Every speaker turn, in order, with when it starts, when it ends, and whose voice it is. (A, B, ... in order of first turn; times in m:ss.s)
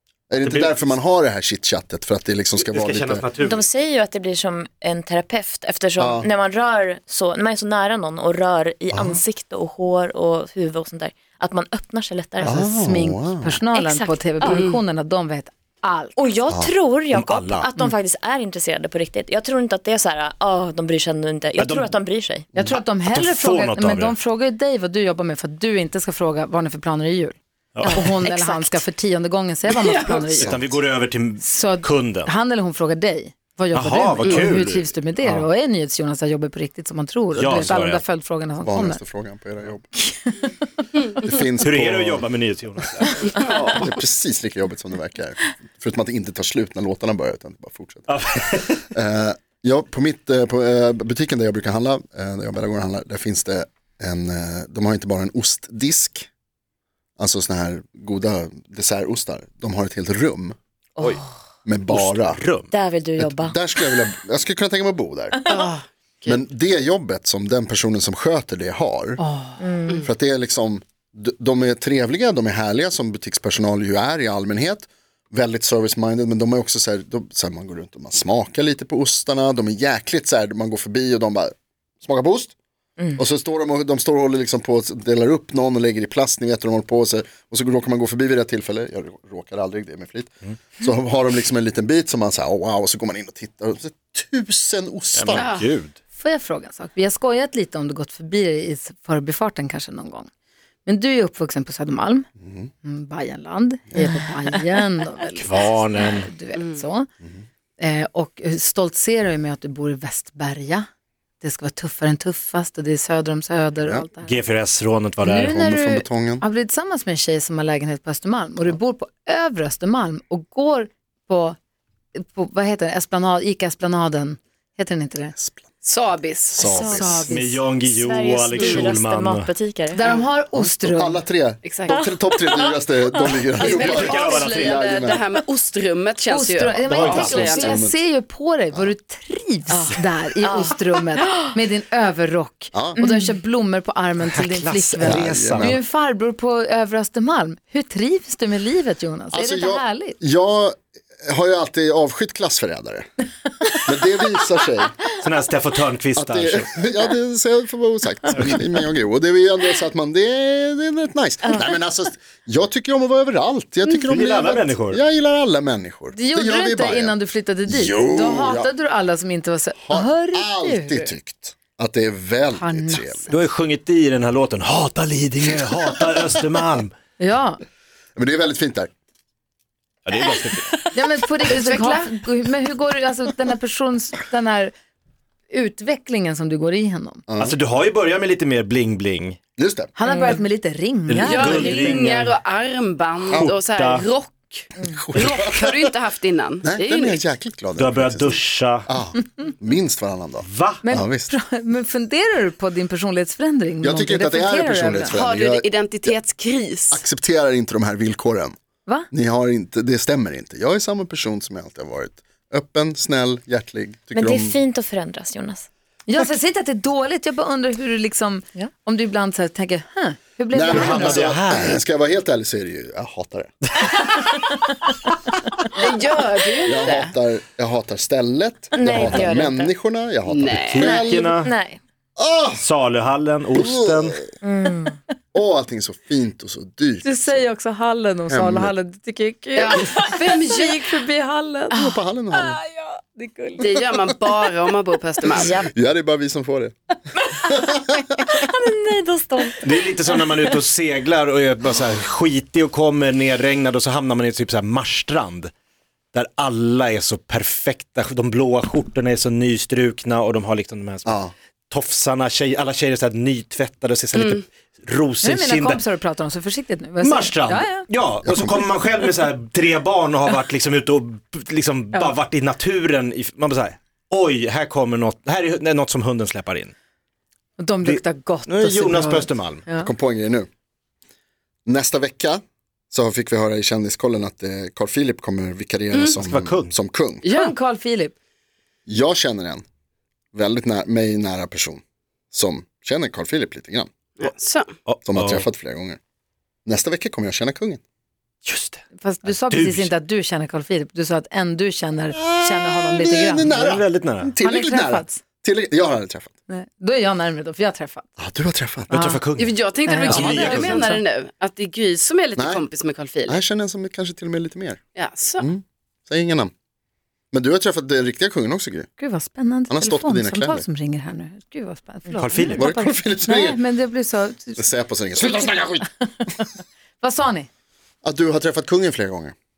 0:00.3-0:03.2 A
0:00.4-0:00.7 B
0:02.6-0:03.6 B
0:03.4-0:12.6 C
0:06.0-0:06.3 A
0:08.9-0:09.2 A
0:12.4-0:16.2 D
0:12.4-0:13.6 A
0:13.7-0:14.7 C
0:14.4-0:14.8 E
0:16.2-0:22.5 C
0:17.1-0:17.7 B
0:21.6-0:21.9 B
0:22.6-0:30.5 D
0:23.1-0:24.1 B
0:27.7-0:28.0 B
0:27.8-0:28.4 E
0:29.7-0:30.4 E
0:30.4-0:30.7 A
0:30.4-0:32.3 B
0:31.4-0:39.0 D
0:33.7-0:35.4 B
0:37.4-0:38.0 B
0:38.6-0:39.9 A
0:40.0-0:40.5 D
0:41.2-0:42.3 A
0:41.6-0:43.4 B
0:43.4-0:43.8 E
0:43.4-0:56.3 A
0:48.1-0:48.9 B
0:57.2-1:00.6 A
1:01.0-1:01.2 C
1:01.6-1:02.4 A
1:01.9-1:02.7 B
1:02.7-1:03.8 C
1:03.2-1:05.5 A
1:05.5-1:06.4 E
1:06.2-1:09.2 A
1:09.2-1:09.6 D
1:09.6-1:10.1 C
1:10.0-1:22.5 A
1:23.2-1:35.5 A
1:35.1-1:36.0 B
1:35.3-1:35.7 E
1:36.2-1:40.3 D
1:40.8-1:42.3 D
1:42.4-1:42.7 A
1:42.8-1:47.1 D
1:43.9-1:44.2 A
1:45.3-1:46.3 B
1:46.5-1:46.8 E
1:47.8-1:50.9 D
1:51.4-1:54.4 D
1:54.2-1:55.5 B
1:55.2-2:01.6 D
1:55.3-1:56.4 A
2:02.1-2:05.3 D
2:05.3-2:05.6 A
2:05.8-2:06.7 E
2:06.5-2:07.3 A
2:06.6-2:07.2 C
2:06.9-2:07.6 D
2:07.3-2:09.5 B
2:07.8-2:10.2 C
2:08.6-2:08.9 E
2:09.9-2:11.2 D
2:10.5-2:15.2 A
2:11.6-2:12.0 E
2:11.9-2:13.4 C
2:13.5-2:17.8 E
2:13.7-2:14.9 B
2:13.7-2:14.2 D
2:16.3-2:30.2 D
2:16.8-2:18.0 A
2:16.9-2:17.5 B
2:19.7-2:21.6 C
2:22.7-2:23.0 A
2:23.0-2:23.4 C
2:24.2-2:25.8 B
2:25.0-2:25.8 A
2:29.3-2:33.1 A
2:33.7-2:35.0 A
2:35.2-2:36.8 B
2:36.2-2:47.1 A
2:44.0-2:45.0 B
2:46.1-2:51.1 D
2:47.7-2:48.7 A
2:49.8-2:53.3 A
2:52.6-2:53.4 D
2:53.3-2:56.9 B
2:57.2-2:57.6 D
2:58.2-2:58.9 A
3:00.0-3:00.8 B
3:00.9-3:04.7 D
3:01.4-3:02.1 E
3:05.5-3:07.2 D
3:07.3-3:07.6 A
3:07.4-3:09.4 B
3:09.6-3:09.9 A
3:10.0-3:12.0 D
3:11.1-3:12.3 B
3:11.2-3:17.2 E
3:13.3-3:14.0 B
3:14.8-3:15.9 A
3:16.6-3:21.3 A
3:17.8-3:18.9 B
3:20.4-3:20.8 B
3:20.8-3:25.1 D
3:23.8-3:26.1 A
3:25.1-3:27.0 E
3:26.9-3:28.6 A
3:29.1-3:34.6 A
3:34.1-3:35.7 C
3:36.1-3:41.3 D
3:40.5-3:43.6 A
3:40.7-3:41.8 B
3:45.7-3:47.1 E
3:46.6-3:51.3 A
3:48.7-3:49.7 C
3:50.3-3:51.0 E
3:50.7-3:51.5 B
3:50.9-3:51.8 C
3:52.2-3:52.6 A
3:52.6-3:54.2 B
3:53.5-3:54.3 A
3:54.4-3:55.0 C
3:55.3-3:57.4 A
3:57.0-4:03.7 D
3:58.3-3:58.7 A
3:59.6-4:00.8 E
4:01.7-4:02.6 A
4:03.6-4:05.6 E
4:05.2-4:06.7 A
4:05.4-4:05.7 C
4:07.2-4:10.2 C
4:07.5-4:08.0 A
4:09.6-4:15.5 B
4:16.1-4:25.8 B
4:21.0-4:21.3 A
4:24.1-4:24.4 E
4:25.2-4:27.8 D
4:27.0-4:36.7 B
4:28.2-4:28.7 A
4:37.6-4:39.9 D
4:37.8-4:39.6 B
4:39.8-4:40.5 A
4:41.6-4:47.2 A
4:46.2-4:46.7 B
4:47.2-4:47.5 E
4:47.2-4:48.1 D
4:48.9-4:49.6 A
4:50.3-4:53.9 A
4:54.2-4:54.7 E
4:54.8-4:55.4 B
4:55.0-4:56.0 A
4:56.6-4:57.8 A
4:58.4-4:59.9 B
4:59.0-5:03.5 D
5:02.1-5:06.3 A
5:03.5-5:04.3 B
5:04.4-5:05.2 D
5:06.5-5:08.1 D
5:08.2-5:08.9 A
5:08.9-5:09.2 D
5:08.9-5:11.0 B
5:09.4-5:13.4 E
5:09.8-5:11.0 D
5:12.4-5:12.6 A
5:13.3-5:14.8 A
5:14.9-5:15.4 E
5:15.4-5:16.5 A
5:17.3-5:18.9 A
5:19.0-5:24.6 D
5:19.7-5:20.6 A
5:22.2-5:22.6 B
5:22.5-5:23.6 A
5:24.6-5:25.9 A
5:25.2-5:26.5 D
5:27.0-5:27.5 D
5:28.0-5:29.3 A